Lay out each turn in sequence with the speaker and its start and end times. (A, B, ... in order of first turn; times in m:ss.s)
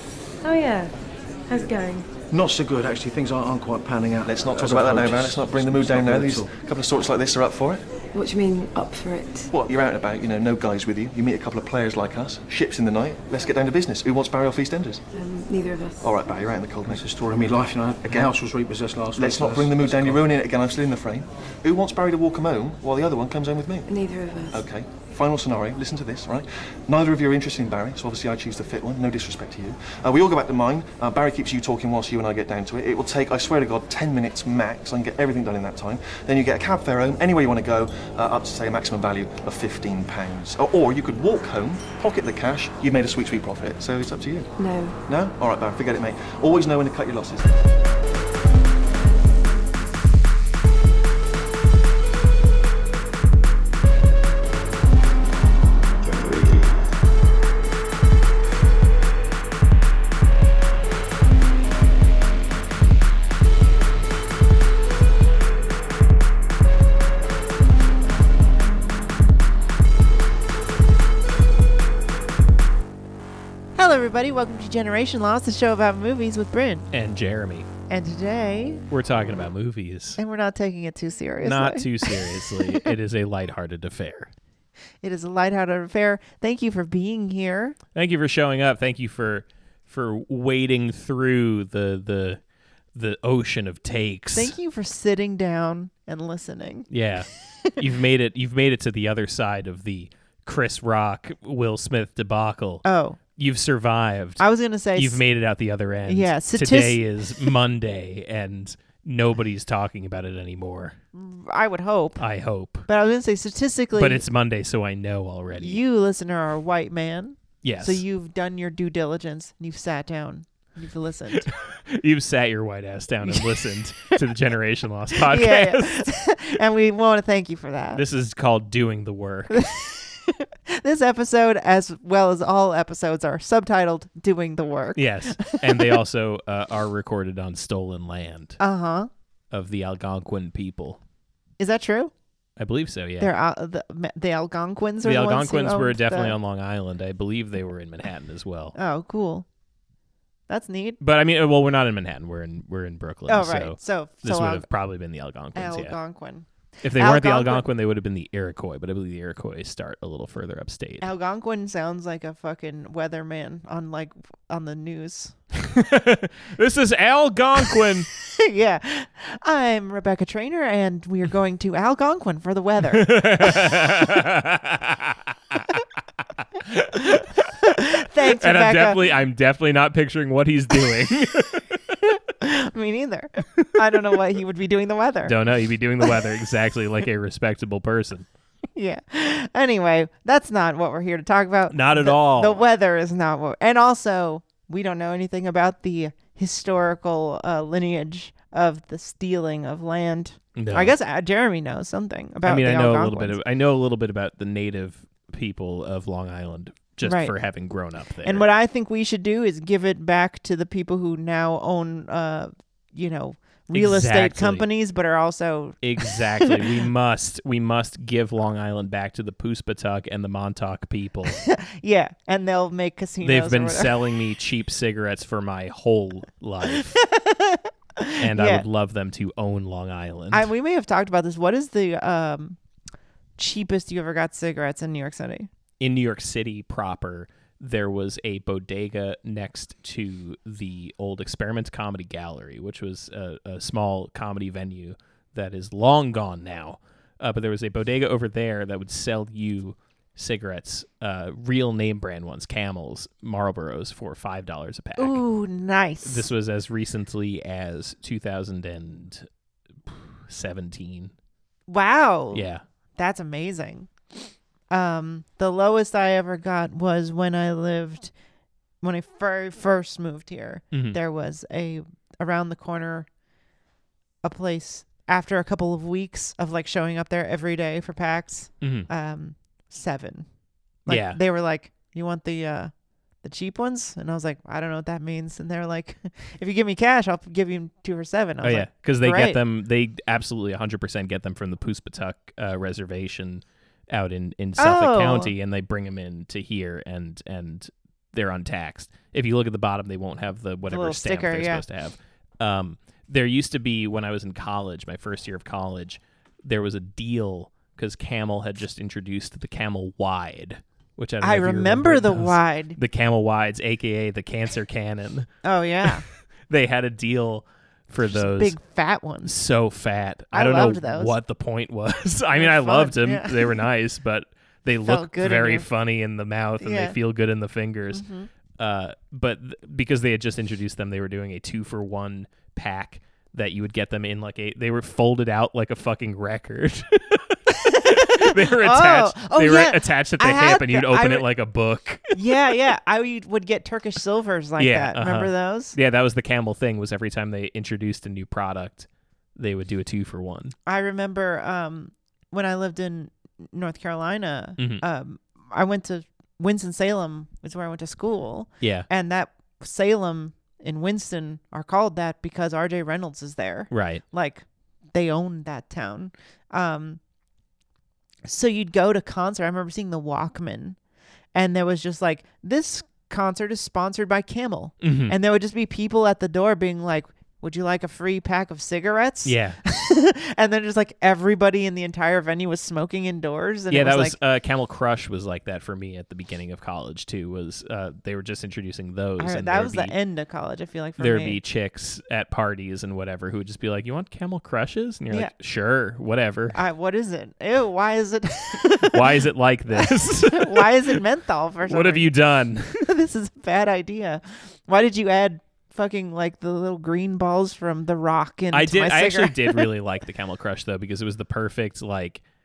0:00.4-0:00.9 A
0:01.5-0:02.1 A
0:02.3-0:06.5 B
0:04.2-0:07.8 C
0:08.1-0:09.5 A
0:09.5-0:15.0 C
0:15.1-0:16.1 A
0:16.0-0:17.0 C
0:16.8-0:20.2 B
0:18.1-0:18.3 C
0:19.1-0:23.9 C
0:23.9-0:24.6 A
0:24.5-0:44.5 C
0:44.6-0:45.0 A
0:45.0-0:47.5 C
1:13.8-1:16.9 D
1:16.9-1:17.7 E
1:17.9-1:18.8 D
1:18.9-1:20.2 E
1:20.2-1:22.9 D
1:21.4-1:24.3 E
1:25.0-1:27.8 D
1:27.9-1:32.4 E
1:32.9-1:34.6 E
1:34.3-1:36.9 D
1:36.9-1:42.8 E
1:42.8-1:43.2 D
1:43.4-1:44.4 E
1:44.4-1:45.2 D
1:44.9-1:51.0 E
1:46.1-1:47.5 D
1:51.1-1:52.2 D
1:52.2-1:52.9 E
1:52.9-1:54.2 D
1:54.0-1:55.8 E
1:55.5-2:01.5 D
1:57.6-1:58.0 E
2:01.4-2:06.1 E
2:03.2-2:04.2 D
2:05.2-2:08.0 D
2:07.9-2:09.6 E
2:09.5-2:16.0 D
2:14.9-2:18.6 E
2:18.6-2:19.1 D
2:19.5-2:21.0 E
2:21.6-2:22.1 D
2:22.6-2:23.3 E
2:23.2-2:26.4 D
2:25.0-2:28.7 E
2:28.7-2:29.4 D
2:30.5-2:31.0 D
2:31.0-2:36.0 E
2:33.3-2:34.6 D
2:35.5-2:37.6 D
2:36.8-2:41.1 E
2:41.0-2:45.4 D
2:45.5-2:48.1 E
2:48.4-2:53.9 D
2:52.9-2:55.8 E
2:56.4-3:02.0 E
2:56.9-2:59.1 D
3:02.1-3:05.4 D
3:03.8-3:04.2 E
3:05.2-3:08.3 E
3:08.8-3:23.4 D
3:11.7-3:12.6 E
3:20.5-3:20.9 E
3:22.4-3:28.4 E
3:27.0-3:27.3 D
3:28.2-3:36.7 D
3:33.7-3:34.7 E
3:35.8-3:41.4 E
3:41.4-3:44.0 D
3:43.2-3:47.0 E
3:46.7-3:48.6 D
3:48.2-3:50.5 E
3:50.3-3:52.6 D
3:53.4-3:55.5 D
3:55.8-4:15.2 E
4:15.0-4:16.3 D
4:16.0-4:19.2 E
4:19.8-4:21.1 E
4:21.7-4:23.9 D
4:22.3-4:22.6 E
4:24.7-4:28.1 D
4:28.8-4:33.1 D
4:30.7-4:31.0 E
4:34.2-4:40.2 D
4:38.6-4:38.9 E
4:40.9-4:41.2 E
4:40.9-4:42.7 D
4:43.2-4:49.4 D
4:48.4-5:15.3 E
4:54.6-4:55.3 D
5:00.7-5:01.6 D
5:11.2-5:12.8 D
5:15.4-5:16.0 D
5:15.8-5:18.6 E
5:18.0-5:19.3 D
5:19.2-5:28.0 E
5:20.3-5:21.1 D
5:22.3-5:23.6 D
5:24.8-5:25.7 D
5:26.6-5:27.0 D
5:27.9-5:28.3 D
5:28.5-5:42.6 E
5:37.5-5:41.3 D
5:42.1-5:45.8 D
5:44.6-5:50.5 E
5:50.6-6:07.0 D
5:54.6-5:54.8 E
5:58.6-5:58.9 E
6:03.7-6:04.0 E
6:08.2-6:10.8 D
6:11.3-6:24.2 D
6:14.8-6:15.2 E
6:19.2-6:19.6 E
6:23.7-6:29.9 E
6:29.2-6:31.4 D
6:31.0-6:36.6 E
6:36.5-6:39.2 D
6:38.9-6:41.0 E
6:39.8-6:42.1 D
6:41.6-6:42.8 E
6:42.8-6:49.7 D
6:48.5-6:52.2 E